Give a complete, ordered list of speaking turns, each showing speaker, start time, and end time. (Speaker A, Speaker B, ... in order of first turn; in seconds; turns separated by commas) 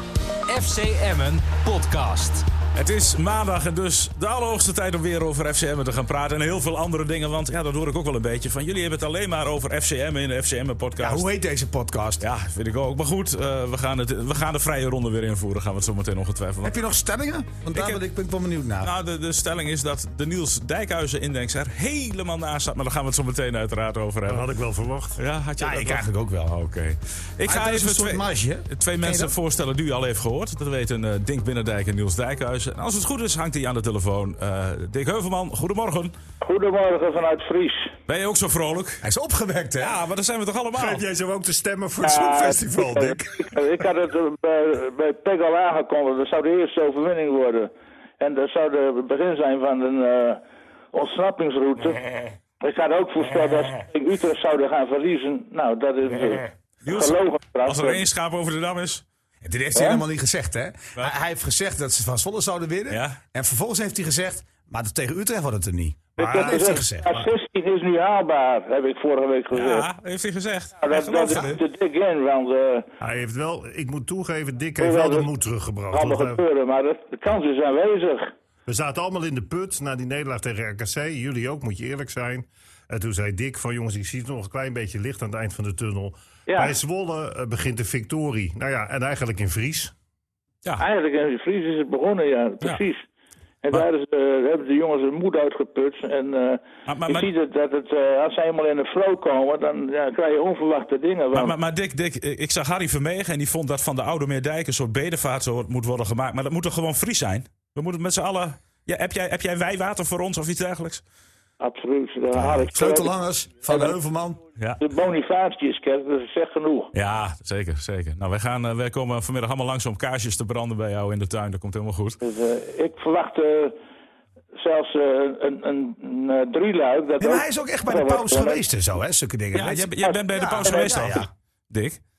Speaker A: 0.5-2.5, Speaker B: 2.8-11.3, Speaker C: 11.0-12.2, Speaker B: 12.2-16.8, Speaker C: 16.6-18.9, Speaker B: 17.7-18.0, Speaker B: 18.8-24.5, Speaker D: 24.3-25.2, Speaker B: 25.2-36.1, Speaker C: 25.6-26.5, Speaker C: 27.4-29.3, Speaker E: 36.4-38.0, Speaker B: 38.1-39.0, Speaker C: 39.0-40.0, Speaker B: 39.8-41.0, Speaker D: 40.8-43.5, Speaker E: 42.0-50.4, Speaker E: 50.9-52.0, Speaker E: 52.6-58.0, Speaker B: 56.8-59.0, Speaker C: 59.4-67.1, Speaker E: 59.8-60.0, Speaker B: 62.9-63.2, Speaker E: 66.2-69.9, Speaker D: 66.2-67.3, Speaker B: 69.5-71.6, Speaker E: 70.8-72.9, Speaker D: 73.0-76.4, Speaker E: 74.8-75.3, Speaker E: 75.9-78.3, Speaker D: 78.7-89.9, Speaker E: 86.5-86.7, Speaker E: 90.8-93.1, Speaker E: 93.6-101.5, Speaker B: 96.9-97.3, Speaker B: 101.3-111.0, Speaker E: 111.6-113.1, Speaker C: 112.3-114.4, Speaker E: 113.7-113.9, Speaker E: 114.8-116.9, Speaker B: 116.9-122.2, Speaker E: 122.2-123.8, Speaker E: 124.5-128.6, Speaker C: 127.2-131.3, Speaker B: 129.5-132.0, Speaker E: 130.0-131.1